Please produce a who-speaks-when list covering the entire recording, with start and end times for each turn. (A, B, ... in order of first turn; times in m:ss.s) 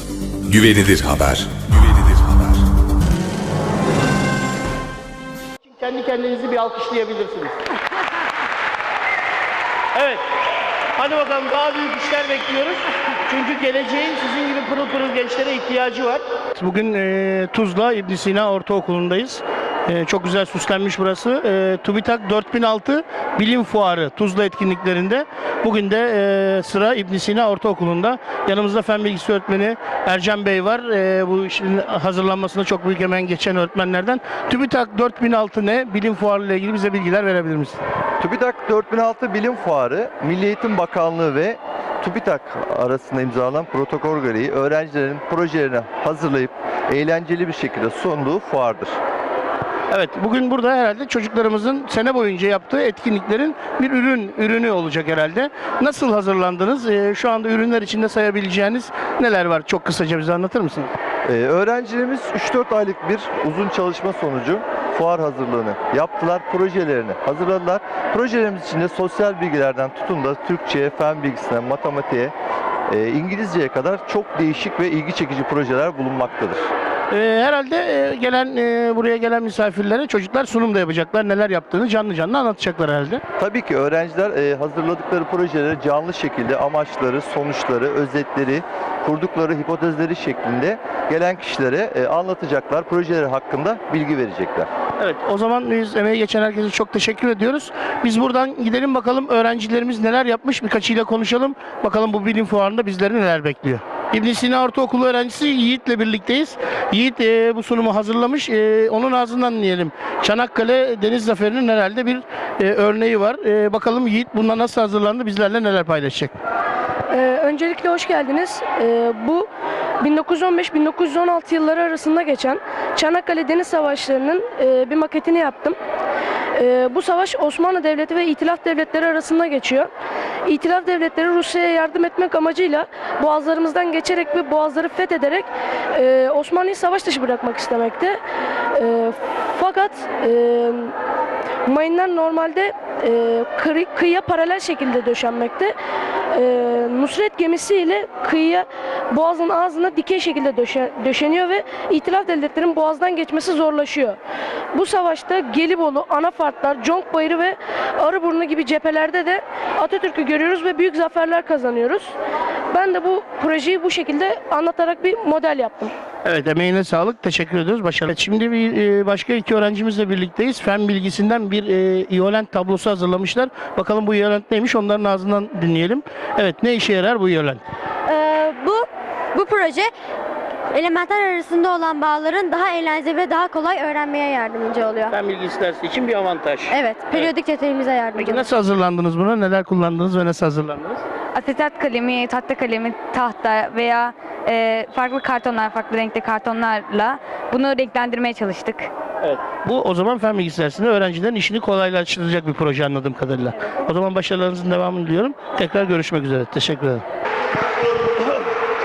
0:00.5-0:02.6 A
0:05.6-0:07.6 B
0:10.0-0:10.2 B
0:11.0-0:37.8 B
0:38.2-0:48.9 C
0:49.9-1:00.9 B
1:01.3-1:12.3 C
1:12.9-1:16.6 C
1:17.1-1:23.2 B
1:23.4-1:34.7 C
1:35.0-1:56.3 B
1:57.1-1:59.5 D
2:00.0-2:05.8 D
2:06.6-2:09.9 D
2:10.4-2:18.2 D
2:18.7-2:21.0 D
2:21.7-2:25.7 D
2:26.3-2:34.2 D
2:34.7-2:42.1 D
2:42.7-2:45.9 D
2:46.2-2:57.6 B
2:58.1-2:59.9 E
3:00.7-3:05.0 E
3:05.1-3:07.3 B
3:06.7-3:08.4 E
3:08.2-3:11.0 B
3:11.3-3:18.9 F
3:19.2-3:27.0 B